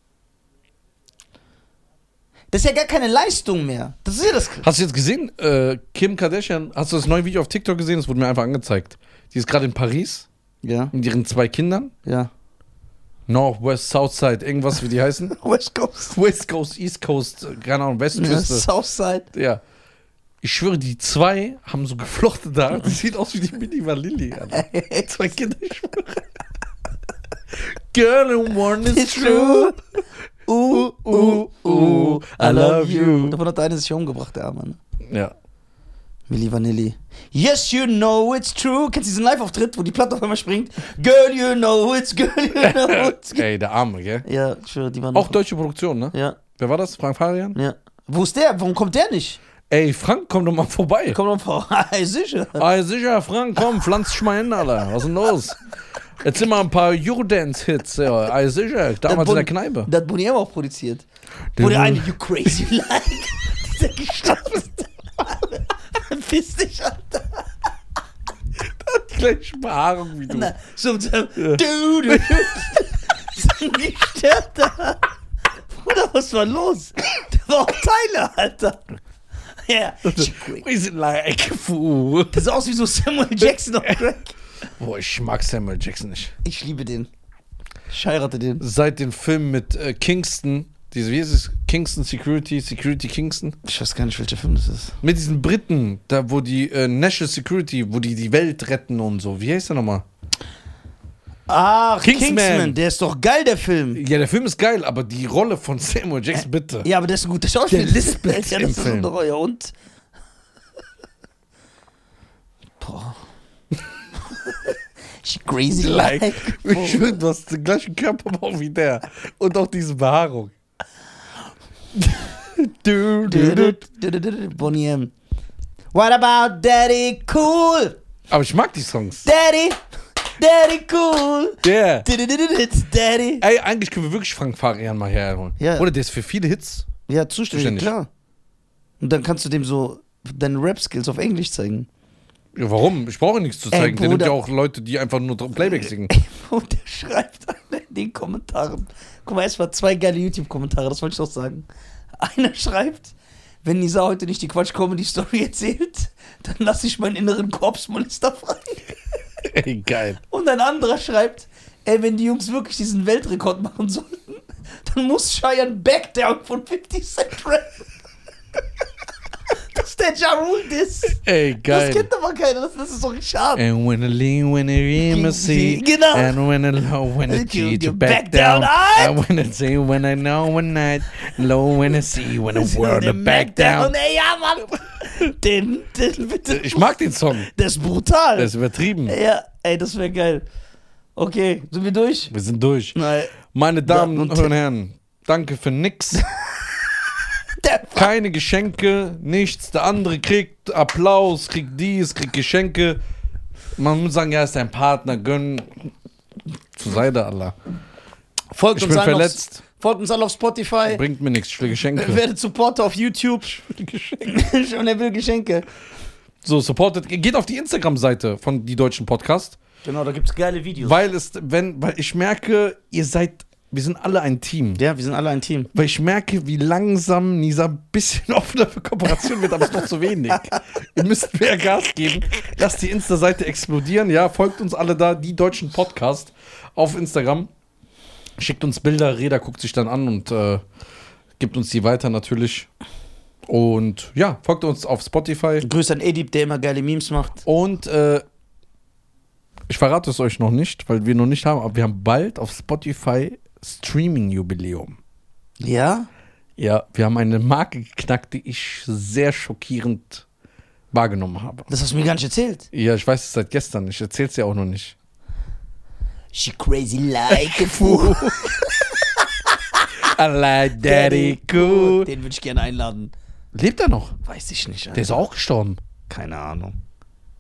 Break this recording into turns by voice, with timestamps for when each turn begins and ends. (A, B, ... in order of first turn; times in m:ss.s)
0:02.5-0:04.7 A
0:04.6-0:10.3 B
0:10.6-0:10.9 A
0:10.9-0:11.9 B
0:12.0-0:12.3 A
0:13.3-0:15.4 B
0:15.4-0:16.2 A
0:16.1-0:18.7 B
0:18.1-0:19.3 A
0:19.3-0:19.6 B
0:20.4-0:26.2 B
0:24.5-0:25.4 A
0:27.6-0:29.8 B
0:28.8-0:29.8 A
0:30.5-0:34.8 A
0:30.7-0:33.4 B
0:35.1-0:35.3 B
0:36.3-0:43.5 A
0:42.6-0:44.2 B
0:44.2-0:45.4 A
0:45.1-0:47.6 B
0:46.1-0:46.4 A
0:47.6-0:49.4 A
0:49.7-0:51.2 B
0:51.1-0:52.7 A
0:52.6-0:55.6 B
0:56.2-0:59.9 B
0:59.1-1:01.0 A
1:01.6-1:02.1 B
1:01.6-1:07.4 A
1:08.6-1:10.5 B
1:10.3-1:15.0 A
1:11.4-1:12.8 B
1:15.7-1:18.8 A
1:19.7-1:20.6 A
1:20.0-1:22.4 B
1:22.3-1:24.3 A
1:24.8-1:26.3 B
1:26.4-1:27.1 A
1:27.9-1:28.6 A
1:28.6-1:33.6 B
1:33.6-1:35.0 A
1:35.0-1:40.0 B
1:41.5-1:44.0 A
1:42.0-1:42.8 B
1:44.0-1:46.9 B
1:46.8-1:49.7 A
1:47.7-1:49.1 B
1:52.8-1:53.2 A
1:54.4-1:57.1 A
1:55.8-2:00.5 B
2:02.5-2:03.8 B
2:03.2-2:05.1 A
2:05.9-2:08.0 A
2:08.3-2:09.3 B
2:09.2-2:13.4 A
2:11.6-2:12.1 B
2:13.4-2:16.9 B
2:15.6-2:15.9 A
2:17.1-2:18.1 A
2:17.5-2:17.9 B
2:19.0-2:21.9 A
2:22.6-2:26.1 B
2:23.7-2:24.4 A
2:26.1-2:31.7 A
2:32.2-2:38.9 A
2:39.5-2:40.2 B
2:40.3-2:47.8 A
2:49.7-2:53.6 A
2:51.1-2:52.1 B
2:53.6-3:03.9 B
2:55.0-2:56.4 A
2:57.3-2:59.2 A
3:02.5-3:08.5 A
3:06.5-3:07.5 B
3:08.4-3:09.2 B
3:09.1-3:10.4 A
3:11.2-3:12.3 A
3:12.3-3:16.2 B
3:13.0-3:13.4 A
3:13.9-3:14.5 A
3:17.6-3:18.1 A
3:18.0-3:23.0 B
3:23.8-3:25.9 B
3:26.8-3:27.6 B
3:28.5-3:31.0 A
3:28.8-3:29.6 B
3:30.9-3:32.2 B
3:31.9-3:33.6 A
3:33.5-3:34.4 B
3:34.3-3:35.7 A
3:36.4-3:39.6 B
3:39.8-3:41.0 A
3:40.8-3:44.8 B
3:44.8-3:45.7 A
3:45.7-3:57.5 B
3:58.4-4:00.6 B
4:01.4-4:02.7 B
4:03.5-4:05.7 B
4:05.6-4:07.4 A
4:07.4-4:08.2 B
4:09.7-4:15.0 B
4:15.6-4:16.1 A
4:16.6-4:20.2 B
4:20.9-4:21.7 B
4:21.7-4:22.7 A
4:22.7-4:25.0 B
4:26.3-4:30.1 A
4:27.3-4:28.6 B
4:30.0-4:32.1 B
4:30.8-4:33.1 A
4:33.6-4:34.2 B
4:34.2-4:35.2 A
4:34.9-4:35.8 B
4:36.1-4:36.7 A